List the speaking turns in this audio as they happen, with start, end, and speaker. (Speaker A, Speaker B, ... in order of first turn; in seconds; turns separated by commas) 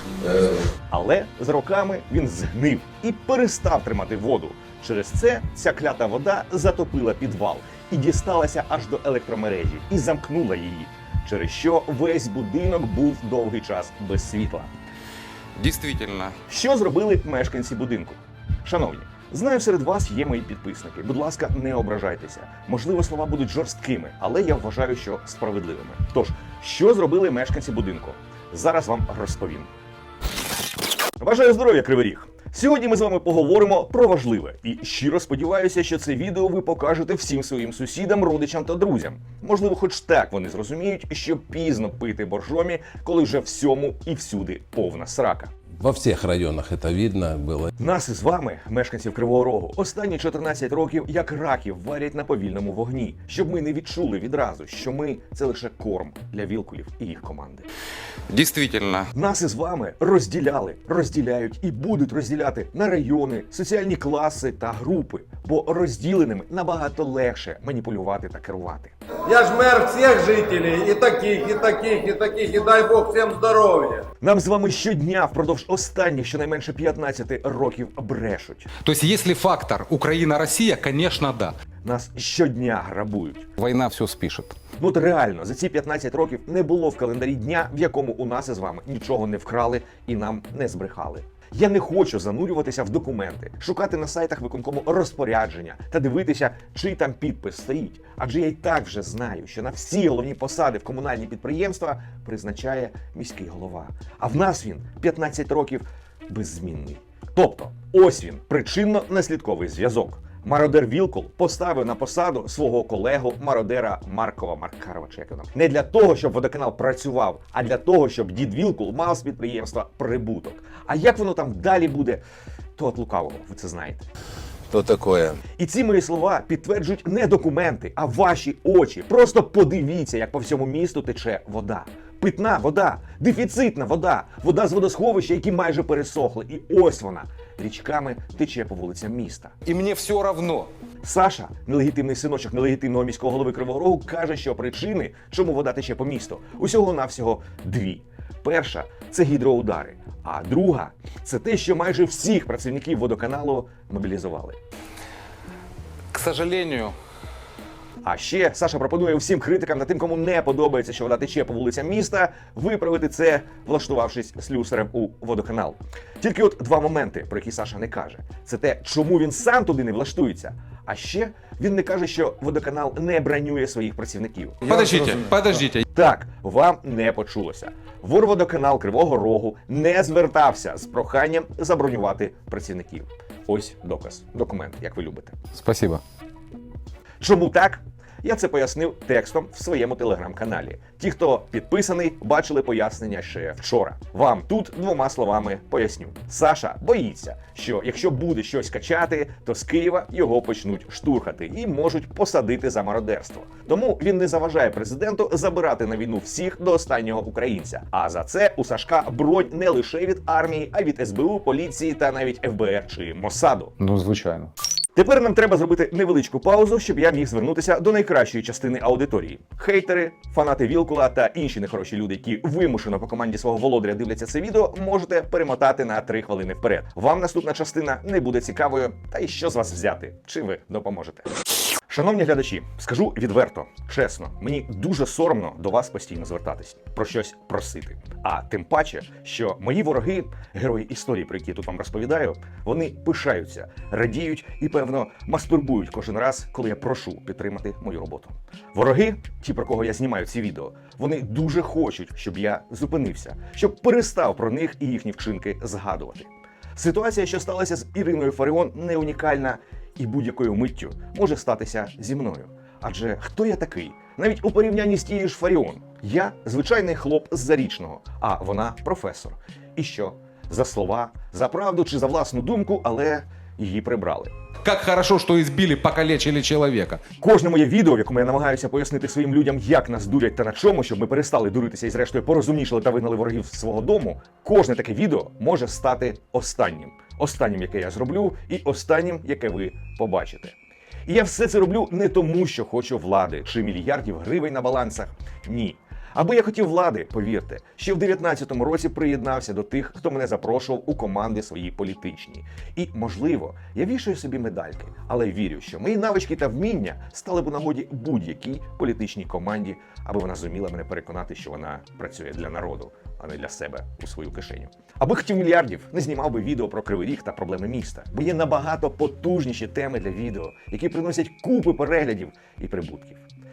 Speaker A: 0.2-0.5, Speaker B: 0.9-14.7, Speaker C: 15.6-16.4, Speaker B: 16.5-29.7, Speaker B: 31.2-45.5, Speaker A: 45.8-47.7, Speaker B: 47.8-57.7, Speaker C: 58.3-59.1, Speaker B: 59.1-68.9, Speaker D: 69.3-74.0, Speaker B: 74.2-78.7, Speaker C: 78.8-81.6, Speaker B: 81.8-83.5, Speaker C: 83.6-84.6, Speaker B: 84.8-122.2, Speaker B: 122.8-124.1, Speaker A: 124.7-125.4, Speaker B: 125.6-139.6, Speaker C: 139.7-140.7, Speaker B: 141.0-154.6, Speaker C: 156.1-157.0, Speaker B: 158.0-175.2, Speaker C: 174.7-175.8, Speaker B: 175.9-185.4, Speaker C: 185.6-186.0, Speaker B: 187.2-213.7, Speaker C: 213.8-214.5, Speaker B: 214.9-231.3, Speaker B: 231.9-274.3, Speaker C: 274.6-277.0, Speaker B: 277.2-290.6, Speaker B: 291.1-323.2